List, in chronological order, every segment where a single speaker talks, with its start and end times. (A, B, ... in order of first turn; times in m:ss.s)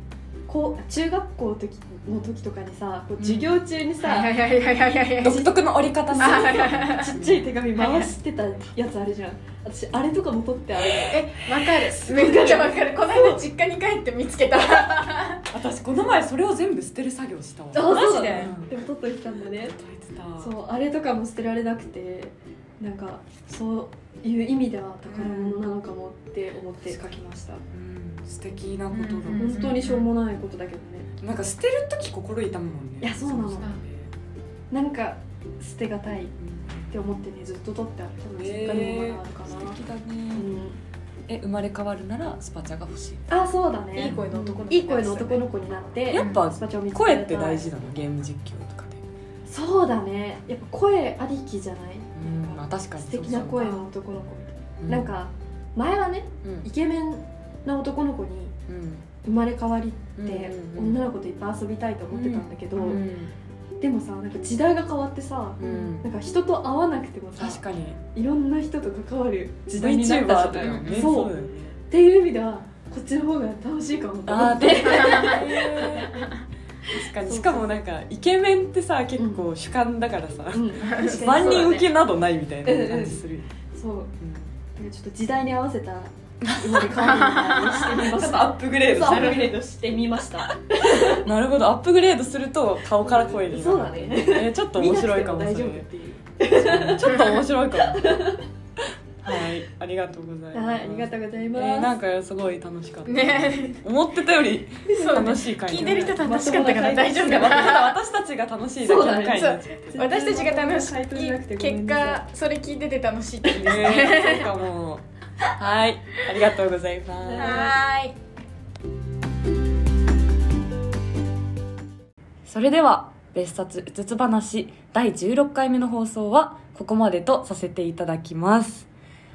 0:00.5-0:04.3 A
0:03.2-0:03.5 B
0:04.0-0:05.4 C
0:05.2-0:07.5 B
0:05.2-0:13.4 A
0:06.2-0:07.2 C
0:07.8-0:08.1 C
0:11.1-0:15.4 C
0:15.5-0:18.7 B
0:17.7-0:19.8 A
0:17.8-0:18.5 C
0:19.7-0:20.5 B
0:20.4-0:27.6 A
0:25.1-0:25.6 C
0:27.7-0:29.9 B
0:28.9-0:30.1 C
0:29.4-0:31.1 A
0:31.2-0:34.1 B
0:33.0-0:33.7 A
0:34.7-0:36.3 A
0:36.4-0:37.1 B
0:36.9-0:39.8 A
0:38.4-0:40.5 B
0:40.3-0:40.8 A
0:41.3-0:43.2 B
0:43.3-0:47.7 A
0:43.9-0:45.5 C
0:46.1-0:49.0 B
0:46.1-0:46.4 C
0:49.5-0:52.2 A
0:52.2-0:53.8 B
0:53.0-0:58.5 A
0:54.8-0:55.1 B
0:58.7-0:59.1 B
0:59.2-1:03.0 A
1:00.2-1:01.0 B
1:02.1-1:03.3 B
1:03.8-1:07.6 A
1:05.6-1:06.1 B
1:07.4-1:08.0 B
1:08.1-1:11.3 A
1:09.8-1:11.8 B
1:10.6-1:11.1 C
1:11.9-1:16.2 A
1:14.2-1:16.3 B
1:14.8-1:16.3 C
1:16.9-1:23.5 B
1:17.2-1:17.8 A
1:19.2-1:19.4 A
1:20.5-1:21.9 A
1:20.8-1:21.6 C
1:22.6-1:24.2 A
1:24.2-1:24.5 B
1:24.7-1:31.2 A
1:26.4-1:27.2 B
1:27.0-1:28.0 C
1:28.0-1:29.4 B
1:29.1-1:29.6 C
1:30.7-1:35.9 B
1:33.0-1:37.1 A
1:36.6-1:38.3 B
1:37.0-1:37.4 C
1:37.8-1:38.5 A
1:39.2-1:46.2 B
1:40.5-1:41.9 A
1:43.1-1:43.8 C
1:44.8-1:47.6 A
1:45.0-1:48.0 C
1:47.1-1:50.1 B
1:48.8-1:52.2 A
1:49.2-1:54.5 C
1:53.5-1:57.7 B
1:57.2-1:57.7 A
1:57.4-1:58.2 C
2:02.4-2:08.9 B